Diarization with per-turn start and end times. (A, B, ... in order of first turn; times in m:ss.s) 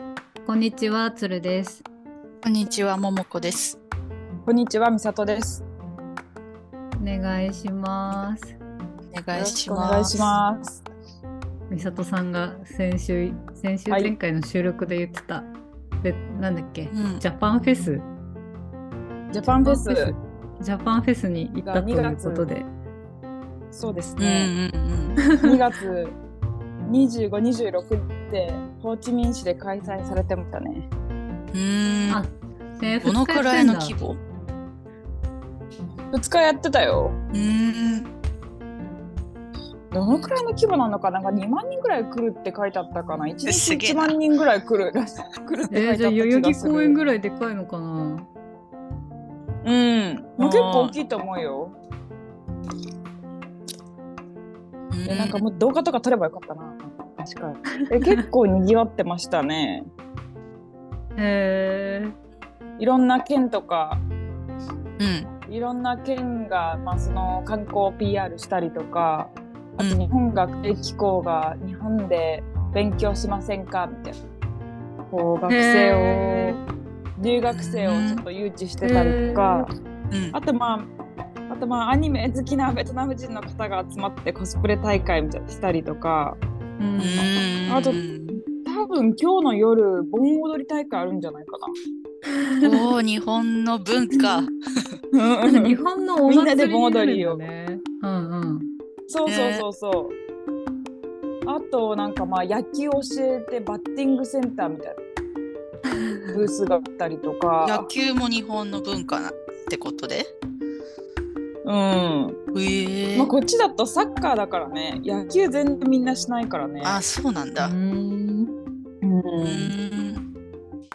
0:00.4-0:01.8 A
0:02.4-0:03.8 B
0:04.4-0:05.6 C
0:07.0-0:08.6 A
0:09.1-0:10.4 B
0:09.3-0:10.8 C
0:11.7-0:18.1 A
0:16.9-0:17.2 B
0:19.3-0:20.1 C
0:19.4-0:22.7 A
0:21.6-0:22.5 C
0:23.7-0:24.5 C
0:24.2-0:25.2 B
0:25.4-0:26.2 C
0:26.9-0:30.9 C
0:31.5-0:32.2 B
0:32.1-0:33.9 A
0:33.0-0:34.2 B
0:36.1-0:37.2 C
0:37.3-0:38.1 B
0:39.9-0:47.0 C
0:43.4-0:44.2 B
0:45.7-0:48.3 A
0:49.6-0:51.8 C
0:50.4-0:50.9 B
0:54.9-0:55.4 B
0:55.1-0:59.9 C
0:57.8-0:58.2 A
1:01.2-1:02.1 A
1:02.8-1:04.0 C
1:05.0-1:05.3 B
1:05.5-1:14.2 C
1:15.1-1:16.6 C
1:15.5-1:16.6 A
1:17.2-1:19.7 C
1:17.5-1:18.2 B
1:18.8-1:19.6 A
1:20.1-1:20.4 B
1:20.3-1:20.9 C
1:21.5-1:26.4 C
1:26.8-1:27.3 A
1:27.0-1:28.4 B
1:27.7-1:31.7 C
1:32.4-1:32.8 A
1:32.6-1:34.5 B
1:35.1-1:37.4 C
1:35.4-1:38.7 A
1:39.1-1:40.2 C
1:39.2-1:39.6 B
1:41.4-1:45.0 C
1:46.0-1:46.3 A
1:46.3-1:47.9 C
1:47.6-1:50.3 B
1:51.6-1:52.4 C
1:52.5-1:53.3 B
1:53.1-1:57.0 C
1:56.8-1:57.7 B
1:57.6-1:58.5 A
1:59.0-1:59.7 C
1:59.4-2:00.2 B